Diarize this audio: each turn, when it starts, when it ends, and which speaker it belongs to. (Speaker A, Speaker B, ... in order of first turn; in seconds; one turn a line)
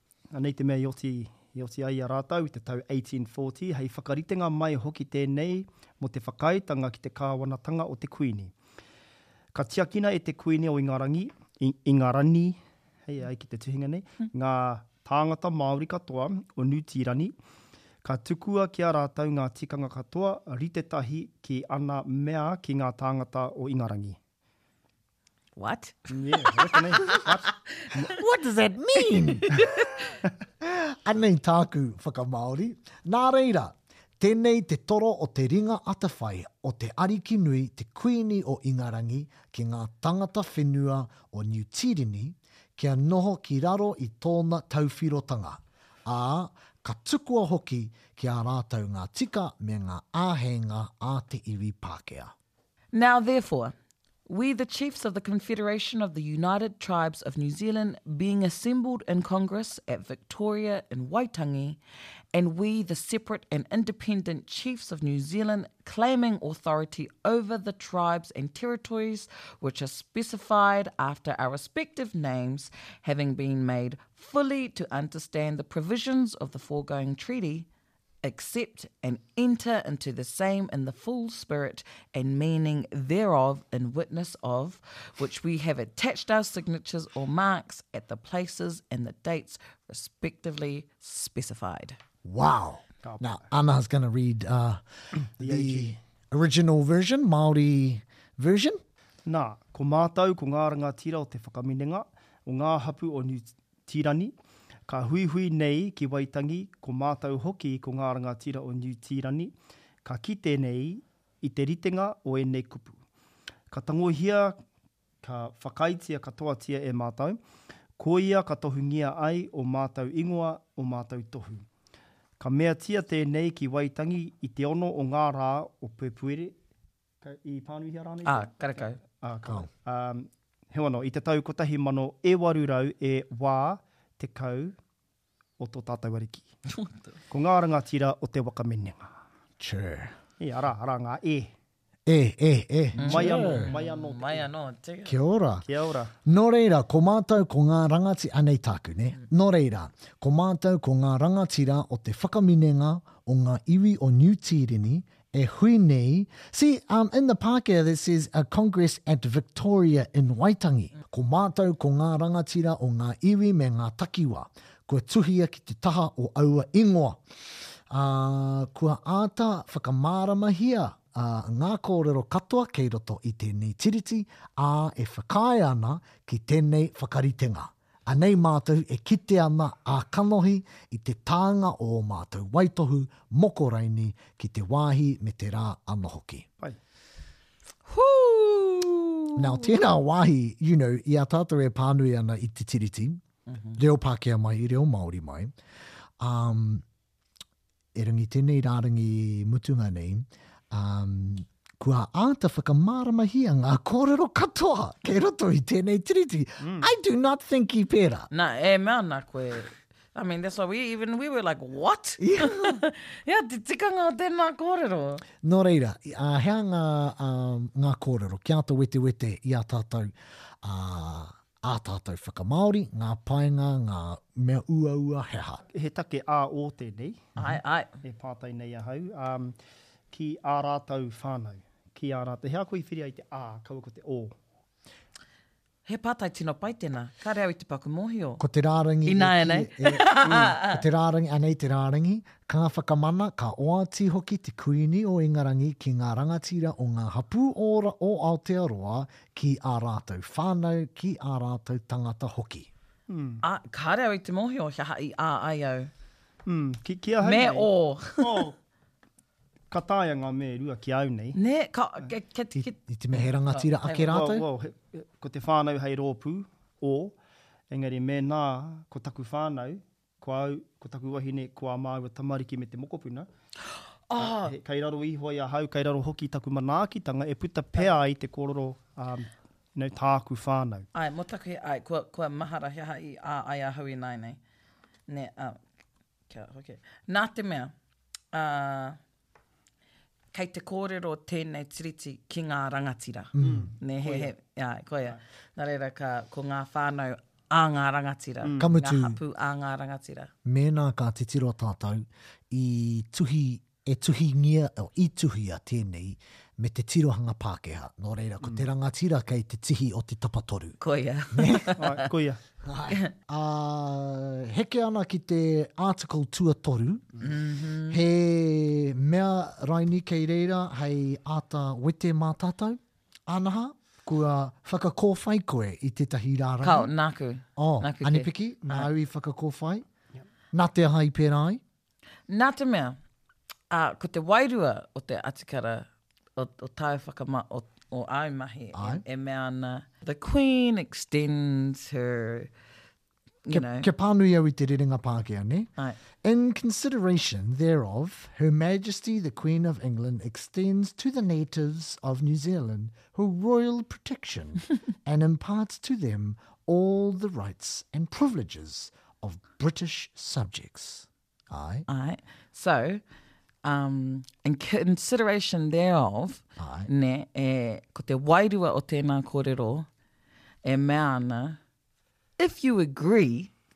Speaker A: 0.3-8.5
Speaker A: 9.5-17.3
Speaker A: 18.0-24.2
Speaker B: 25.6-27.3
Speaker A: 26.1-28.0
Speaker C: 28.0-29.8
Speaker B: 29.4-30.0
Speaker C: 30.6-52.3
Speaker B: 52.9-53.7
Speaker B: 54.2-61.8
Speaker B: 62.3-77.7
Speaker B: 78.2-92.0
Speaker C: 92.2-94.8
Speaker A: 93.0-93.4
Speaker C: 95.4-98.8
Speaker A: 95.4-96.0
Speaker A: 99.2-104.3
Speaker A: 104.9-109.5
Speaker A: 110.0-113.0
Speaker A: 113.7-114.6
Speaker A: 115.2-117.4
Speaker A: 118.0-121.7
Speaker A: 122.4-126.5
Speaker A: 127.2-134.8
Speaker B: 128.2-129.0
Speaker A: 135.6-136.5
Speaker B: 136.7-137.1
Speaker A: 137.3-139.2
Speaker C: 139.6-140.2
Speaker A: 140.4-141.5
Speaker C: 142.1-143.7
Speaker B: 142.9-145.1
Speaker A: 143.0-144.5
Speaker C: 145.1-145.7
Speaker A: 145.7-146.1
Speaker C: 146.2-167.2
Speaker C: 167.9-186.4
Speaker B: 187.9-189.7
Speaker C: 189.3-193.2
Speaker B: 193.5-193.8
Speaker C: 193.7-195.5
Speaker C: 196.2-196.8
Speaker C: 197.9-208.3
Speaker A: 206.6-206.9
Speaker B: 208.3-215.2
Speaker C: 212.2-212.8
Speaker C: 215.4-225.6
Speaker A: 225.7-227.3
Speaker B: 227.4-227.9
Speaker A: 228.0-229.6
Speaker A: 230.1-234.3
Speaker B: 235.8-238.4
Speaker C: 238.4-252.7
Speaker B: 239.0-240.8
Speaker A: 240.2-240.5
Speaker A: 253.1-253.4
Speaker B: 253.4-255.9
Speaker A: 256.4-258.6
Speaker B: 257.2-258.4
Speaker A: 259.7-261.4
Speaker B: 261.3-264.1
Speaker C: 262.5-264.4
Speaker A: 264.0-267.1
Speaker A: 267.7-273.3
Speaker B: 274.1-274.5
Speaker A: 274.2-280.9
Speaker B: 280.9-284.4
Speaker B: 285.1-285.6
Speaker B: 286.3-287.7
Speaker B: 288.3-289.0
Speaker B: 290.3-300.3
Speaker C: 293.3-293.7
Speaker A: 293.4-294.3
Speaker A: 298.4-298.7
Speaker C: 298.6-299.2
Speaker C: 300.4-310.8
Speaker B: 310.8-312.1
Speaker C: 311.3-311.7
Speaker A: 311.8-312.4
Speaker C: 312.6-317.2
Speaker B: 317.2-318.0
Speaker C: 317.9-326.9
Speaker B: 326.6-328.3
Speaker C: 327.6-329.8
Speaker C: 330.5-331.6
Speaker B: 332.3-333.0
Speaker B: 333.7-342.5
Speaker C: 338.7-339.0
Speaker B: 343.4-343.9
Speaker C: 343.5-345.7
Speaker C: 346.2-361.9
Speaker B: 361.9-363.0
Speaker B: 363.6-369.9
Speaker C: 366.6-366.9
Speaker B: 370.6-371.6
Speaker B: 372.4-373.5